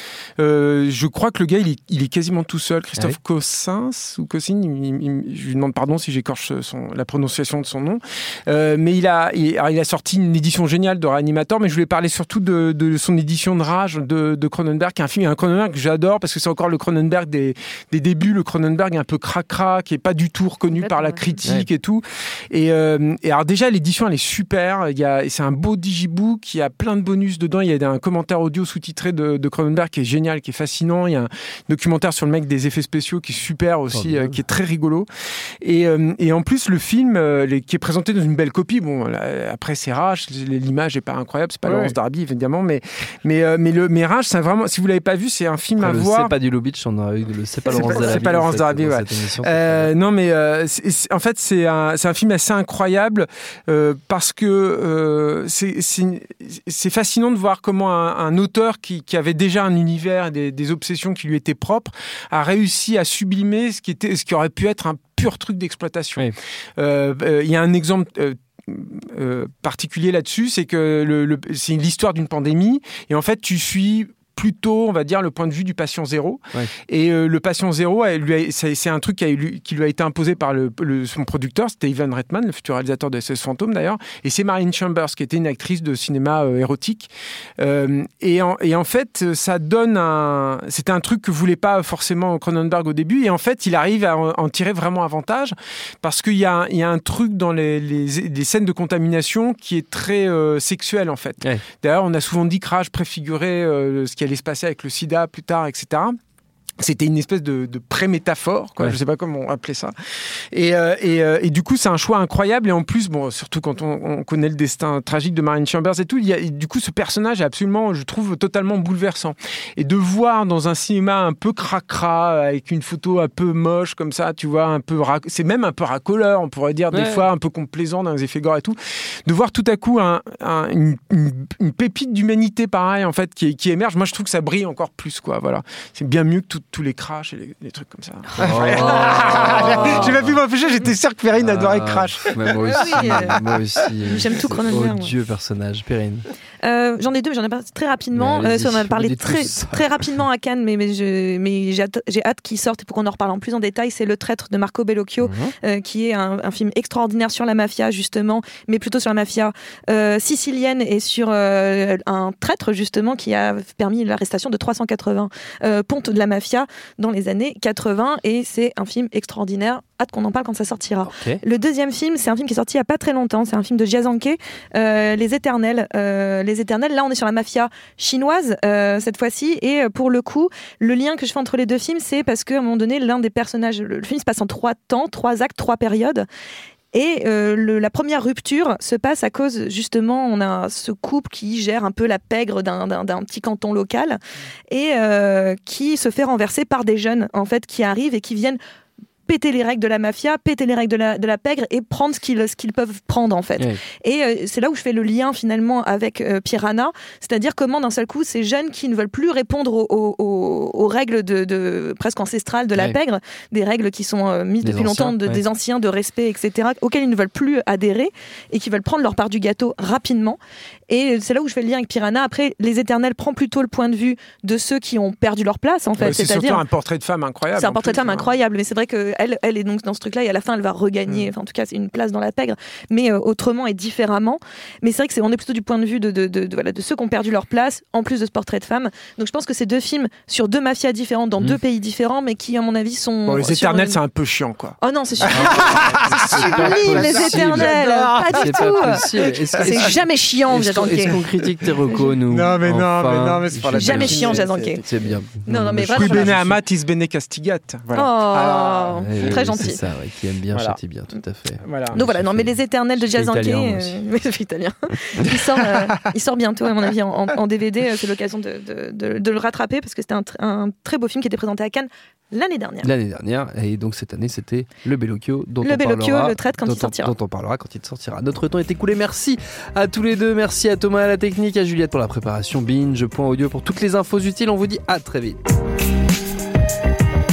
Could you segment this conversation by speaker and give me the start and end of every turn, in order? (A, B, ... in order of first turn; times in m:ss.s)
0:00.4-0:35.1 A
0:20.8-0:21.4 B
0:33.9-0:34.4 C
0:35.6-0:46.3 A
0:41.6-0:41.9 C
0:45.8-0:49.9 C
0:47.7-1:46.2 A
1:46.8-1:49.9 A
1:50.5-2:23.4 A
2:06.9-2:07.2 C
2:18.4-2:20.4 C
2:19.6-2:20.1 B
2:21.4-2:26.3 C
2:22.7-2:23.4 B
2:24.0-2:25.1 B
2:26.6-3:06.2 B
2:28.1-2:30.1 C
2:35.2-2:35.5 C
2:51.0-2:51.4 C
3:06.9-3:14.2 B
3:14.7-3:18.6 B
3:19.3-3:46.6 B
3:34.6-3:35.4 C
3:46.0-3:48.3 A
3:47.6-4:04.0 B
4:03.3-4:04.8 A
4:04.8-4:09.0 B
4:05.2-4:16.6 C
4:05.3-4:09.9 A
4:09.6-4:11.2 B
4:11.1-4:15.1 A
4:13.7-4:14.8 B
4:15.4-4:16.4 B
4:15.9-4:19.4 A
4:17.9-4:19.8 B
4:19.0-4:24.0 C
4:20.5-4:20.8 A
4:21.6-4:22.0 A
4:21.9-4:32.9 B
4:32.8-4:45.4 C
4:35.6-4:37.1 B